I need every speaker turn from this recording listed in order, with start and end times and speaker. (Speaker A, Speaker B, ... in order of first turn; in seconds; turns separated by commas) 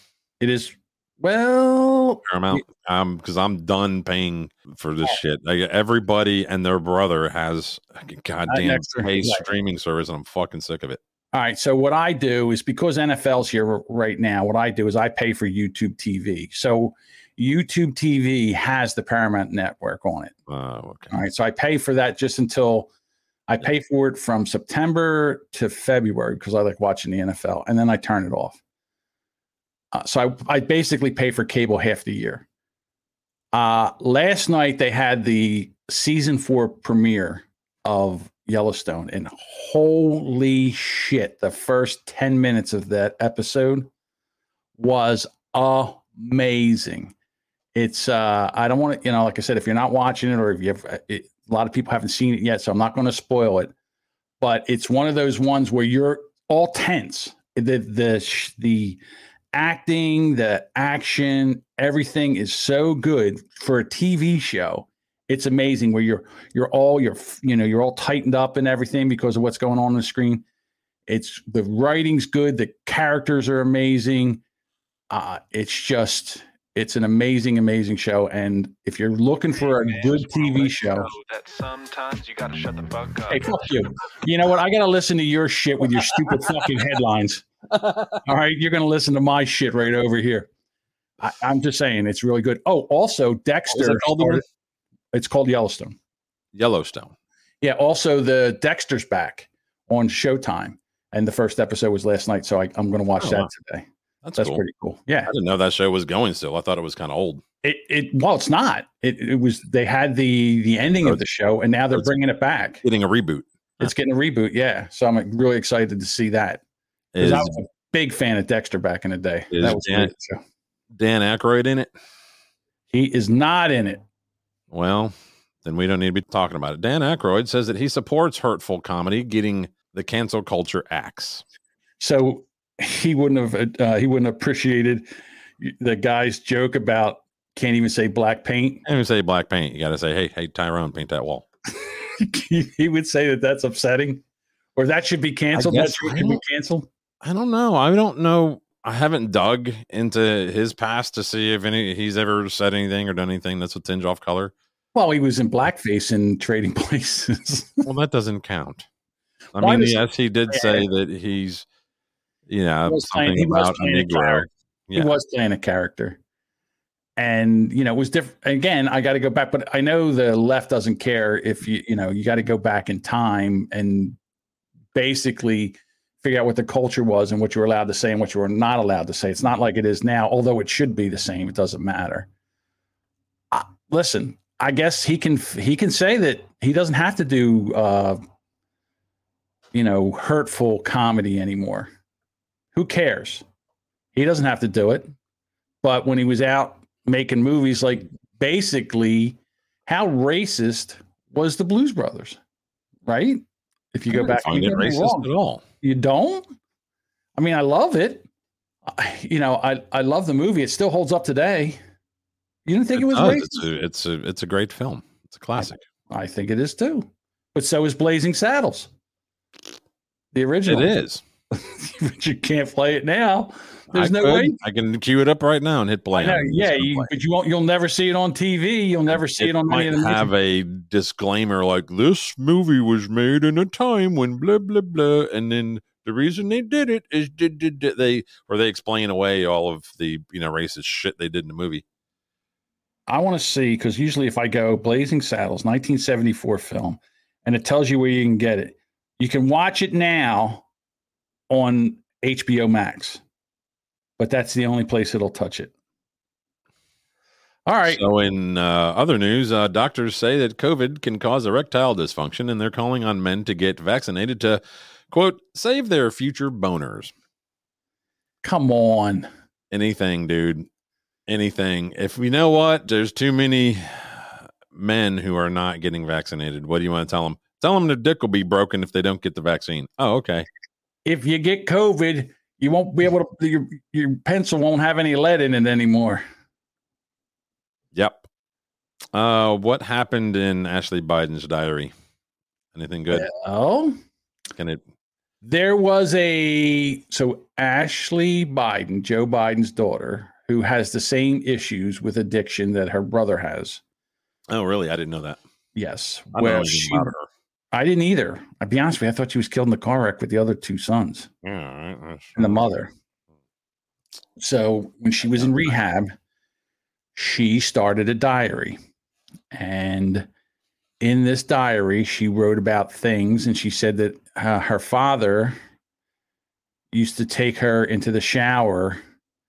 Speaker A: 0.4-2.6, Speaker B: 2.3-11.0, Speaker A: 8.5-9.4, Speaker A: 11.3-20.3, Speaker B: 20.5-21.2, Speaker A: 21.1-22.9, Speaker A: 23.5-28.6, Speaker A: 29.9-32.5, Speaker A: 33.5-43.9, Speaker A: 44.8-47.1, Speaker A: 47.7-53.7, Speaker A: 54.4-59.0, Speaker A: 59.5-70.4, Speaker A: 71.1-74.4, Speaker A: 75.1-81.1, Speaker C: 79.6-83.7, Speaker A: 83.3-87.4, Speaker A: 88.2-90.5, Speaker A: 91.2-94.4, Speaker B: 93.7-94.4, Speaker A: 95.1-96.0, Speaker B: 96.5-97.1, Speaker A: 97.6-105.3, Speaker B: 103.2-103.5, Speaker B: 104.2-104.6, Speaker B: 105.2-107.4, Speaker A: 107.6-112.8, Speaker B: 112.8-113.9, Speaker A: 113.8-116.6, Speaker B: 117.1-117.6, Speaker A: 117.2-120.4, Speaker B: 119.5-120.1, Speaker B: 120.9-121.9, Speaker A: 122.9-124.0, Speaker B: 124.7-131.4, Speaker A: 132.0-135.1, Speaker A: 135.6-138.8, Speaker B: 138.8-141.4, Speaker A: 141.9-144.2, Speaker A: 144.8-146.9, Speaker B: 145.5-146.4, Speaker B: 147.2-154.5, Speaker A: 154.9-157.8, Speaker B: 157.8-158.8, Speaker B: 159.5-161.7, Speaker A: 159.6-160.9, Speaker B: 162.5-165.1, Speaker A: 162.8-166.2, Speaker A: 167.2-174.2, Speaker A: 174.9-182.3, Speaker A: 183.5-188.2, Speaker A: 189.7-191.9, Speaker A: 192.7-193.4, Speaker A: 194.1-195.1, Speaker A: 195.8-202.4, Speaker A: 203.1-205.3, Speaker B: 204.1-205.6, Speaker A: 205.8-206.5, Speaker A: 207.3-208.2, Speaker A: 208.8-211.8, Speaker A: 212.6-213.6, Speaker B: 212.9-215.8, Speaker A: 215.6-218.9, Speaker A: 220.3-220.9, Speaker B: 220.7-221.2, Speaker A: 221.5-224.6, Speaker B: 223.9-227.1, Speaker A: 226.1-230.3, Speaker B: 229.4-241.8, Speaker A: 243.1-250.7, Speaker A: 251.5-253.2, Speaker A: 254.2-255.7, Speaker A: 257.6-258.0, Speaker B: 257.8-267.1, Speaker A: 268.4-269.3, Speaker B: 269.7-270.7, Speaker B: 271.3-280.5, Speaker A: 281.0-286.2, Speaker B: 287.9-288.2, Speaker B: 289.1-291.9, Speaker B: 292.7-293.3, Speaker A: 293.1-293.9, Speaker B: 294.6-294.8, Speaker A: 295.4-303.8, Speaker B: 304.5-305.4, Speaker A: 305.7-307.1, Speaker B: 306.3-307.3, Speaker A: 307.7-311.3, Speaker B: 311.4-312.6, Speaker A: 312.4-312.9, Speaker A: 314.4-316.1, Speaker B: 315.4-315.7, Speaker A: 317.1-318.8, Speaker A: 319.5-320.3, Speaker A: 321.0-325.6, Speaker A: 326.9-329.0